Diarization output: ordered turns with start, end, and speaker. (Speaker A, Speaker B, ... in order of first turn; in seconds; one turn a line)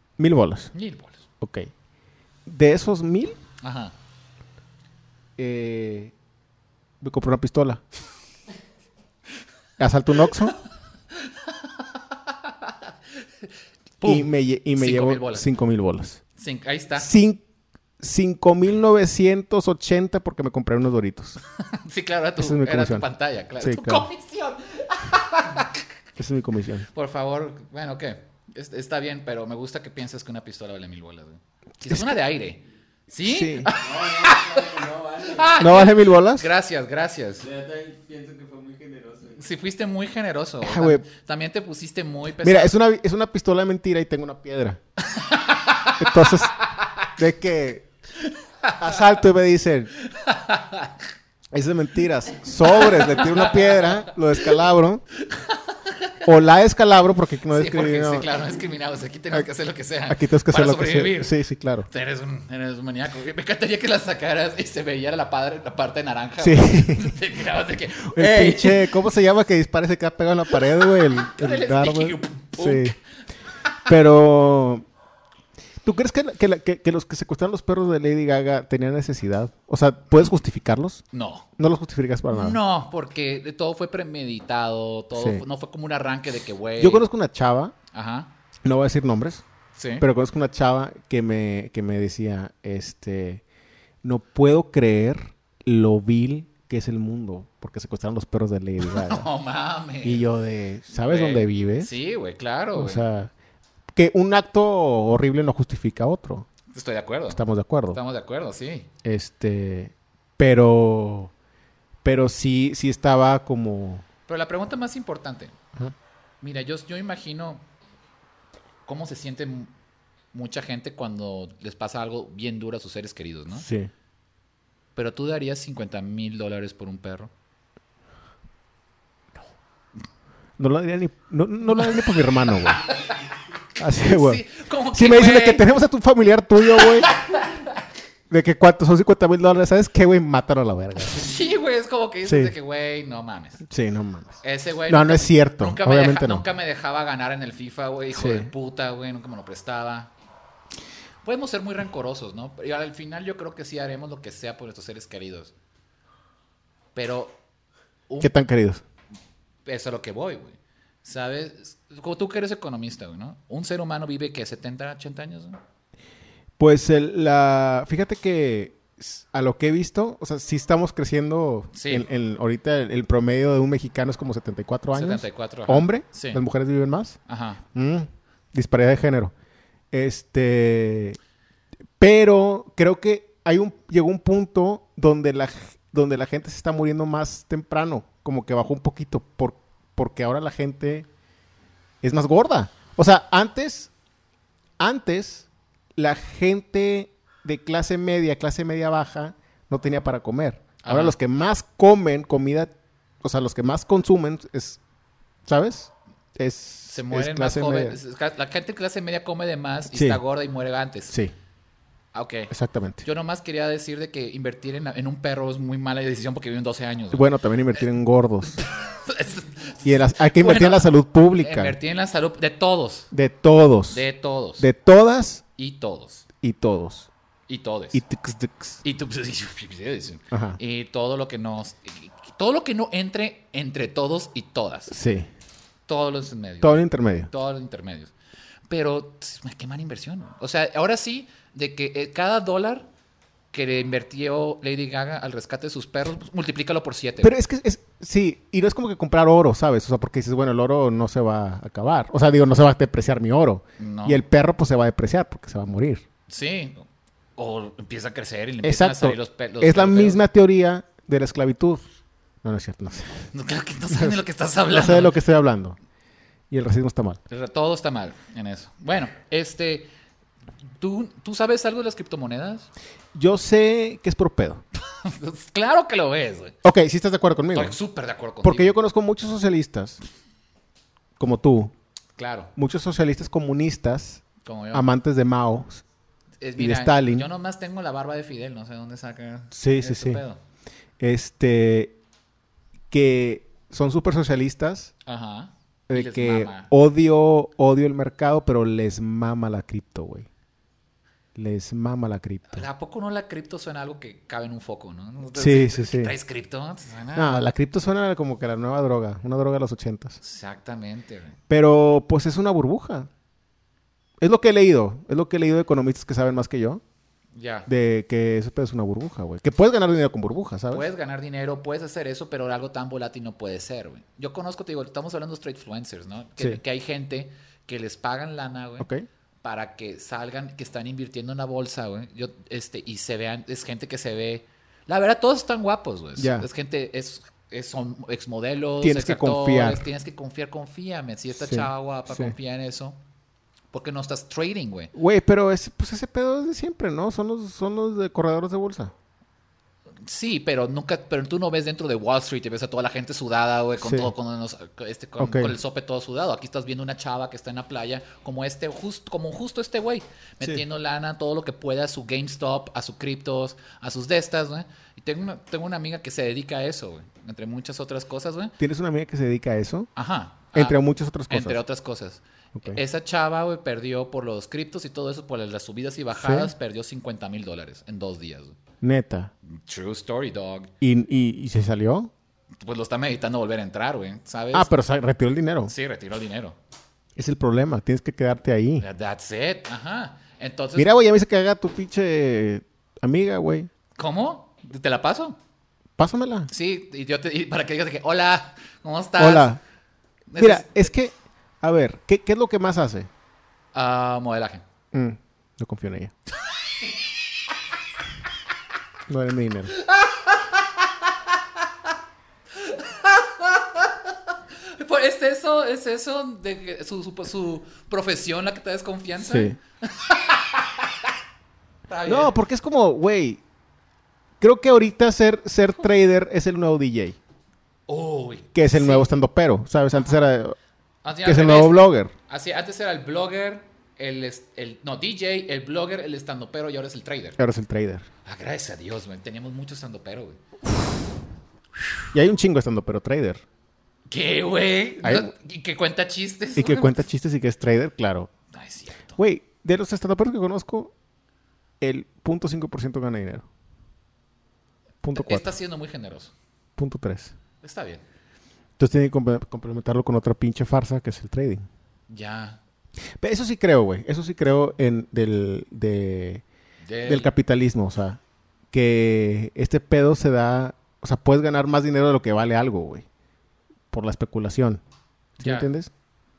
Speaker A: 0.2-0.7
Speaker B: 0.7-1.2
Speaker A: 1.4-1.7
Speaker A: 2.5-3.4
Speaker B: 3.6-3.9
Speaker A: 5.4-6.1
Speaker A: 7.0-7.8
Speaker A: 9.8-10.6
Speaker B: 11.2-12.9
Speaker B: 14.0-15.5
Speaker A: 14.0-16.2
Speaker B: 16.4-17.1
Speaker A: 17.0-17.4
Speaker A: 18.0-21.4
Speaker B: 21.8-25.8
Speaker A: 22.4-23.1
Speaker A: 23.6-24.1
Speaker A: 26.2-26.9
Speaker B: 26.9-34.6
Speaker A: 31.8-32.2
Speaker A: 33.2-33.7
Speaker C: 33.8-35.7
Speaker B: 35.3-37.5
Speaker A: 35.6-36.5
Speaker C: 37.4-39.4
Speaker B: 39.4-42.7
Speaker A: 40.6-41.1
Speaker A: 42.4-44.8
Speaker B: 45.1-46.4
Speaker A: 46.0-46.5
Speaker A: 47.2-47.9
Speaker A: 48.8-49.9
Speaker B: 50.1-50.9
Speaker A: 51.5-55.0
Speaker B: 52.7-54.0
Speaker B: 55.3-56.1
Speaker A: 56.2-58.3
Speaker B: 57.5-61.4
Speaker A: 60.1-61.9
Speaker B: 61.9-69.0
Speaker A: 66.4-67.2
Speaker A: 68.1-73.0
Speaker B: 70.5-72.9
Speaker A: 73.9-74.8
Speaker A: 75.8-81.0
Speaker B: 81.1-81.5
Speaker A: 81.6-82.6
Speaker B: 82.3-87.1
Speaker A: 85.2-85.4
Speaker A: 86.8-87.8
Speaker B: 87.9-88.3
Speaker A: 88.7-89.4
Speaker B: 89.8-90.1
Speaker A: 90.0-93.4
Speaker A: 94.0-99.3
Speaker B: 98.8-100.2
Speaker A: 100.0-101.9
Speaker B: 101.0-103.0
Speaker A: 102.8-103.3
Speaker A: 103.9-106.5
Speaker B: 106.7-108.9
Speaker A: 107.3-108.0
Speaker A: 109.0-111.3
Speaker A: 112.0-114.0
Speaker B: 114.3-115.5
Speaker B: 116.4-117.6
Speaker B: 118.9-119.7
Speaker B: 120.3-123.7
Speaker A: 123.5-123.9
Speaker B: 125.0-127.3
Speaker A: 130.6-132.8
Speaker B: 131.8-133.2
Speaker A: 133.8-134.4
Speaker B: 133.9-135.7
Speaker A: 134.9-137.1
Speaker B: 136.7-137.8
Speaker A: 138.3-141.3
Speaker B: 141.0-143.6
Speaker A: 142.2-142.5
Speaker A: 143.7-146.5
Speaker B: 144.4-150.1
Speaker A: 148.1-148.5
Speaker B: 151.2-155.5
Speaker B: 156.9-157.4
Speaker B: 158.1-158.3
Speaker A: 158.2-158.8
Speaker B: 159.7-165.6
Speaker A: 166.6-177.2
Speaker B: 171.7-172.1
Speaker B: 174.9-176.4
Speaker B: 177.3-177.6
Speaker A: 177.7-179.3
Speaker A: 179.9-181.2
Speaker A: 182.0-191.1
Speaker A: 192.0-193.9
Speaker A: 194.8-204.8
Speaker B: 200.8-201.2
Speaker A: 205.5-208.0
Speaker B: 206.9-211.2
Speaker A: 209.9-210.2
Speaker B: 212.1-212.5
Speaker A: 212.5-213.0
Speaker B: 213.0-217.3
Speaker A: 217.1-218.6
Speaker B: 218.6-223.1
Speaker A: 219.8-221.8
Speaker A: 223.1-224.1
Speaker B: 223.9-224.7
Speaker A: 224.6-225.4
Speaker B: 225.6-226.2
Speaker A: 226.4-227.1
Speaker B: 227.5-228.0
Speaker A: 227.9-228.8
Speaker B: 228.8-234.9
Speaker A: 230.3-230.6
Speaker A: 234.9-235.3
Speaker B: 235.9-238.1
Speaker A: 236.6-237.3
Speaker B: 238.7-242.9
Speaker B: 243.5-247.3
Speaker A: 247.2-256.1
Speaker B: 253.8-254.2
Speaker B: 256.3-260.2
Speaker A: 258.6-261.8
Speaker A: 262.4-263.3
Speaker B: 263.3-265.1
Speaker A: 263.9-264.2
Speaker A: 264.7-265.8
Speaker A: 266.5-267.2
Speaker B: 267.3-269.9
Speaker B: 270.8-272.7
Speaker A: 273.1-274.6
Speaker B: 275.0-276.6
Speaker A: 276.6-277.8
Speaker B: 277.5-278.8
Speaker A: 278.4-280.0
Speaker A: 281.2-281.7
Speaker B: 282.2-282.5
Speaker A: 282.6-285.8
Speaker B: 284.4-284.9
Speaker B: 286.4-290.4
Speaker A: 286.6-287.3
Speaker A: 289.5-290.2
Speaker A: 291.0-292.0
Speaker A: 292.9-294.9
Speaker B: 295.1-296.7
Speaker A: 295.9-300.3
Speaker A: 301.4-302.7
Speaker B: 302.5-307.4
Speaker A: 305.4-306.1
Speaker A: 307.1-310.2
Speaker B: 310.2-311.4
Speaker A: 311.5-313.1
Speaker A: 314.2-316.8
Speaker B: 317.4-317.7
Speaker A: 317.7-320.9
Speaker B: 320.7-328.9
Speaker A: 328.8-329.1
Speaker B: 329.4-343.0
Speaker A: 336.2-336.5
Speaker A: 338.8-339.9
Speaker A: 341.4-342.4
Speaker B: 343.7-344.9
Speaker A: 344.9-348.9
Speaker B: 350.0-368.6
Speaker A: 353.8-354.1
Speaker A: 355.2-355.6
Speaker A: 368.6-369.9
Speaker B: 370.0-370.8
Speaker A: 370.5-371.6
Speaker B: 371.3-378.6
Speaker A: 372.6-372.8
Speaker A: 376.1-376.5
Speaker A: 378.8-379.3
Speaker B: 379.5-380.7
Speaker A: 380.8-382.1
Speaker B: 382.6-384.7
Speaker A: 384.5-385.7
Speaker B: 385.7-386.6
Speaker A: 387.2-388.9
Speaker B: 388.8-390.9
Speaker A: 390.8-393.7
Speaker B: 394.0-395.4
Speaker A: 396.0-396.5
Speaker B: 396.5-399.5
Speaker A: 399.2-399.6
Speaker B: 400.3-400.9
Speaker A: 400.4-403.1
Speaker B: 403.7-404.6
Speaker A: 404.9-406.1
Speaker A: 409.1-409.7
Speaker B: 409.8-410.7
Speaker B: 412.6-414.1
Speaker B: 414.7-421.1
Speaker A: 419.2-419.6
Speaker B: 421.9-422.4
Speaker A: 422.1-423.4
Speaker A: 424.4-427.2
Speaker B: 427.9-429.1
Speaker A: 428.5-430.6
Speaker B: 431.0-437.4
Speaker A: 431.2-432.1
Speaker A: 437.4-438.1
Speaker B: 438.2-440.4
Speaker A: 442.1-443.4
Speaker B: 444.1-447.0
Speaker A: 445.0-445.3
Speaker A: 446.6-448.3
Speaker B: 448.5-449.2
Speaker A: 449.2-450.9
Speaker A: 451.8-453.5
Speaker A: 455.0-455.5
Speaker B: 455.1-456.3
Speaker A: 456.8-457.3
Speaker B: 457.6-458.0
Speaker A: 458.8-461.6
Speaker B: 462.1-462.6
Speaker A: 463.2-466.4
Speaker B: 466.8-467.3
Speaker A: 467.1-468.2
Speaker A: 468.7-473.1
Speaker A: 473.9-474.8
Speaker A: 475.4-475.9
Speaker B: 475.4-475.7